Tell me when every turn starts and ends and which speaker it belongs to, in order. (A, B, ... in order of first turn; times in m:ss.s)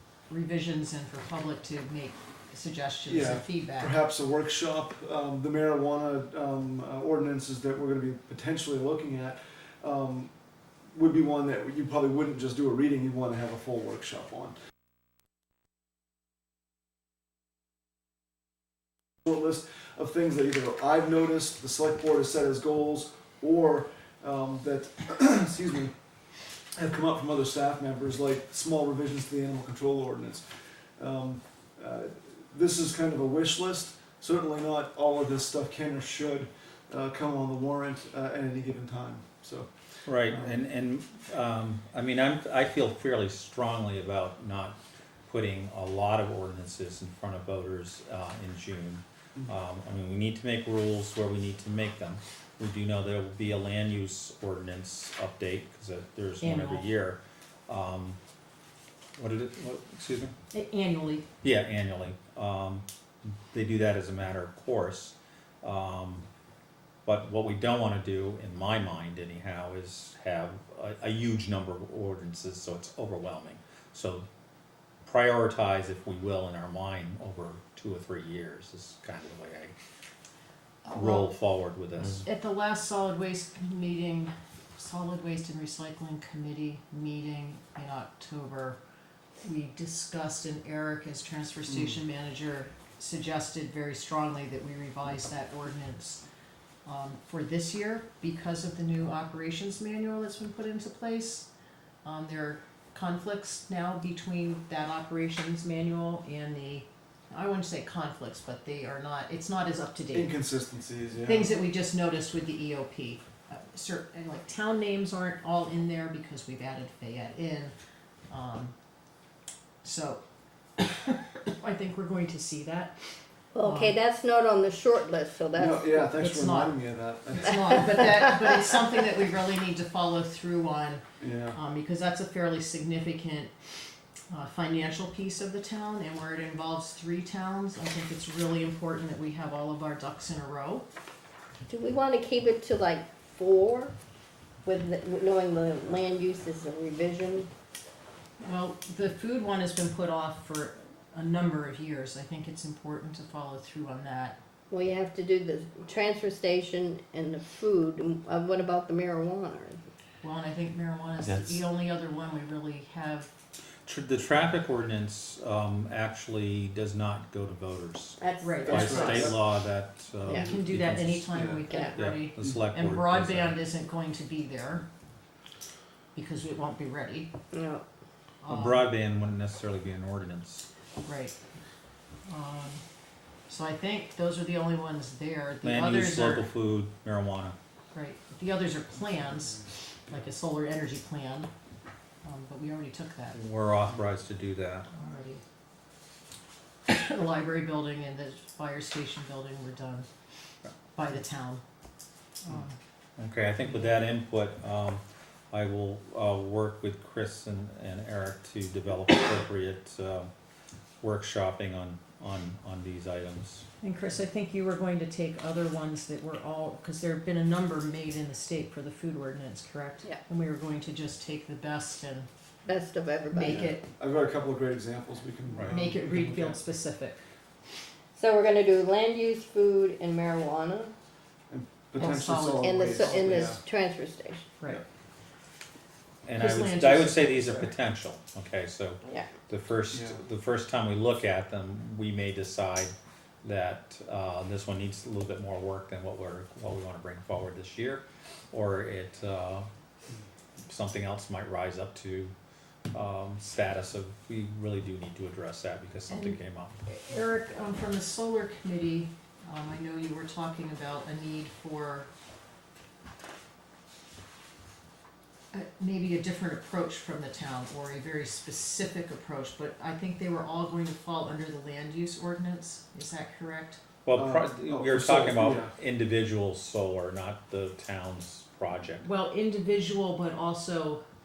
0:00.3-0:03.9 A
0:03.0-0:10.3 B
0:10.9-0:14.5 B
0:19.2-0:25.9 B
0:26.7-0:30.4 B
0:31.0-0:39.7 B
0:40.0-0:58.2 C
0:40.3-0:40.5 B
0:56.4-0:56.9 A
0:59.2-1:00.3 C
1:00.5-1:01.2 A
1:01.4-1:06.2 C
1:07.0-1:14.2 C
1:15.0-1:19.7 C
1:20.8-1:21.3 A
1:20.9-1:22.2 C
1:22.2-1:28.8 A
1:29.4-1:36.2 A
1:36.8-1:41.5 A
1:42.0-1:50.3 A
1:50.1-1:51.5 B
1:51.2-1:57.7 A
1:58.3-1:58.7 A
1:59.8-2:00.2 A
2:00.8-2:02.9 A
2:03.5-2:05.9 D
2:03.6-2:04.0 A
2:05.5-2:07.8 B
2:06.1-2:06.8 A
2:07.3-2:13.5 A
2:11.2-2:11.6 B
2:14.3-2:20.8 A
2:21.7-2:23.9 D
2:24.6-2:27.5 D
2:28.4-2:34.4 A
2:34.7-2:39.8 D
2:40.2-2:43.3 A
2:43.8-2:51.3 C
2:48.2-2:49.3 D
2:48.4-2:49.4 A
2:48.6-2:49.4 B
2:50.3-2:54.9 A
2:51.3-2:51.6 B
2:51.7-2:52.0 D
2:51.9-2:53.6 C
2:56.1-2:57.3 A
2:57.5-2:57.8 D
2:58.4-2:58.9 A
2:58.5-3:00.6 C
3:01.0-3:01.4 A
3:02.3-3:02.8 A
3:03.5-3:06.5 A
3:05.6-3:07.5 C
3:07.9-3:11.5 A
3:12.2-3:13.4 A
3:13.3-3:14.9 C
3:14.9-3:15.4 A
3:16.9-3:20.0 A
3:20.9-3:21.6 A
3:22.4-3:22.8 A
3:23.2-3:30.3 C
3:31.0-3:33.6 C
3:33.8-3:42.3 A
3:42.6-3:43.7 D
3:43.3-3:43.9 A
3:43.5-3:46.6 B
3:45.6-3:47.2 A
3:48.2-3:50.9 D
3:51.5-3:53.6 B
3:52.0-3:53.5 A
3:52.0-3:54.5 D
3:56.2-4:09.6 C
3:56.4-3:57.7 A
4:10.6-4:12.3 C
4:12.9-4:16.8 C
4:16.1-4:22.1 A
4:25.5-4:33.8 A
4:34.0-4:39.0 C
4:34.1-4:35.7 B
4:39.0-4:41.0 A